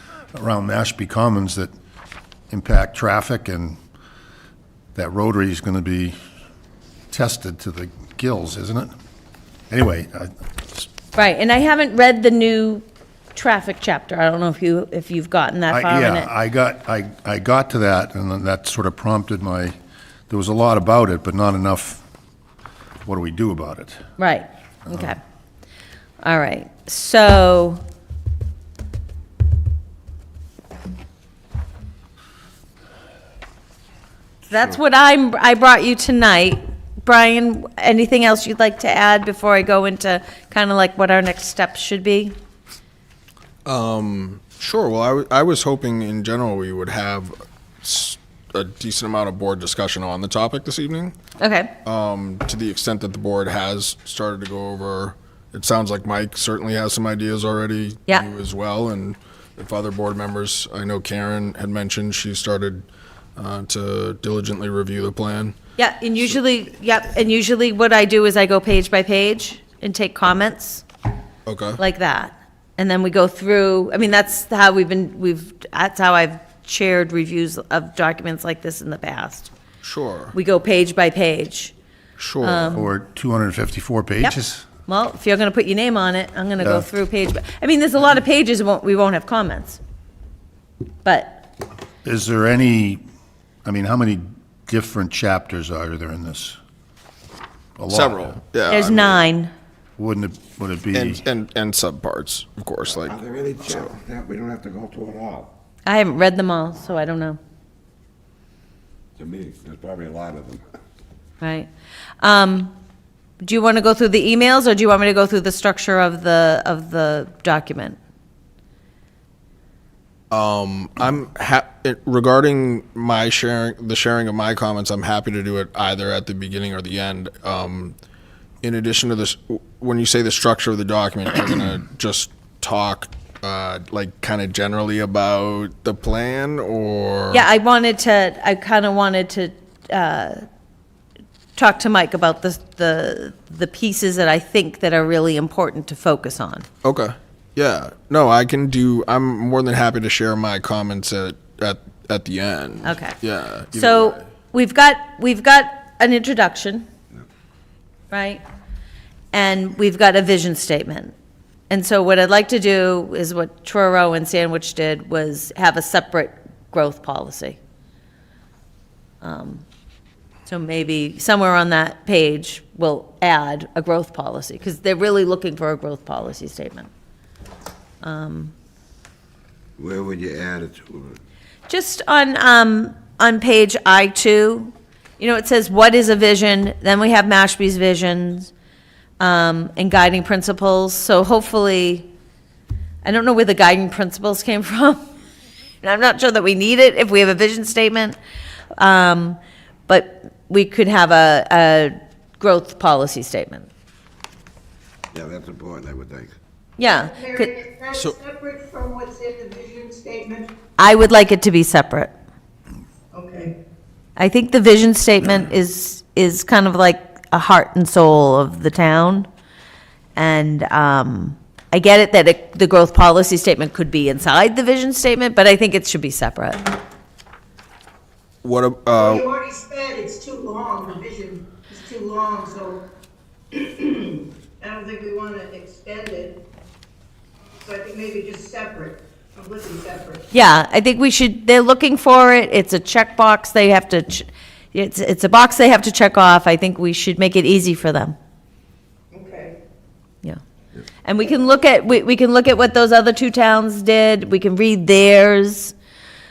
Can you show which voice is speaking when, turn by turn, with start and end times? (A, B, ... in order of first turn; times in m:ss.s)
0:00.3-0:01.7 A
0:02.5-0:03.8 A
0:05.0-0:06.2 A
0:07.1-0:08.9 A
0:09.7-0:10.9 A
0:11.2-0:12.8 B
0:13.4-0:16.3 B
0:15.7-0:19.8 A
0:20.3-0:22.0 A
0:23.0-0:24.0 A
0:24.2-0:25.2 B
0:26.2-0:27.8 B
0:34.5-0:42.4 B
0:43.6-0:51.1 C
0:51.4-0:51.7 B
0:51.8-1:02.8 C
1:03.4-1:05.6 C
1:05.8-1:10.8 B
1:11.5-1:11.8 C
1:11.8-1:19.5 B
1:19.8-1:20.4 C
1:20.3-1:21.7 B
1:22.2-1:22.9 C
1:22.4-1:22.9 B
1:22.7-1:24.6 A
1:24.2-1:29.8 B
1:26.6-1:26.9 A
1:31.0-1:31.5 B
1:32.0-1:33.0 A
1:33.6-1:36.6 A
1:37.8-1:38.4 A
1:37.9-1:39.2 C
1:38.7-1:39.5 B
1:40.0-1:41.2 A
1:40.9-1:43.2 C
1:42.9-1:45.5 D
1:45.8-1:47.4 B
1:49.2-1:50.6 D
1:51.4-1:51.7 B
1:52.2-1:52.7 B
1:53.4-1:58.0 B
2:00.3-2:08.0 C
2:08.6-2:17.4 C
2:17.3-2:20.4 B
2:21.6-2:26.7 B
2:26.8-2:34.2 C
2:32.8-2:33.2 B
2:33.7-2:36.9 B
2:38.1-2:38.4 B
2:39.3-2:41.1 B
2:41.7-2:47.6 B
2:49.2-2:49.6 B
2:50.5-2:56.9 B
2:58.0-2:58.5 B
2:59.8-3:01.2 D
3:01.7-3:08.5 B
3:09.2-3:12.1 B
3:13.0-3:15.0 B
3:15.8-3:18.2 B
3:18.8-3:23.7 B
3:25.1-3:26.4 D
3:26.8-3:27.6 B
3:26.9-3:30.5 E
3:30.8-3:32.1 B
3:33.1-3:33.6 E
3:34.2-3:39.3 B
3:40.2-3:46.7 B
3:48.4-3:49.2 C
3:48.9-3:52.8 E
3:53.5-3:56.4 E
3:57.6-4:00.2 E
4:00.3-4:08.2 B
4:09.1-4:09.6 E
4:11.0-4:15.8 B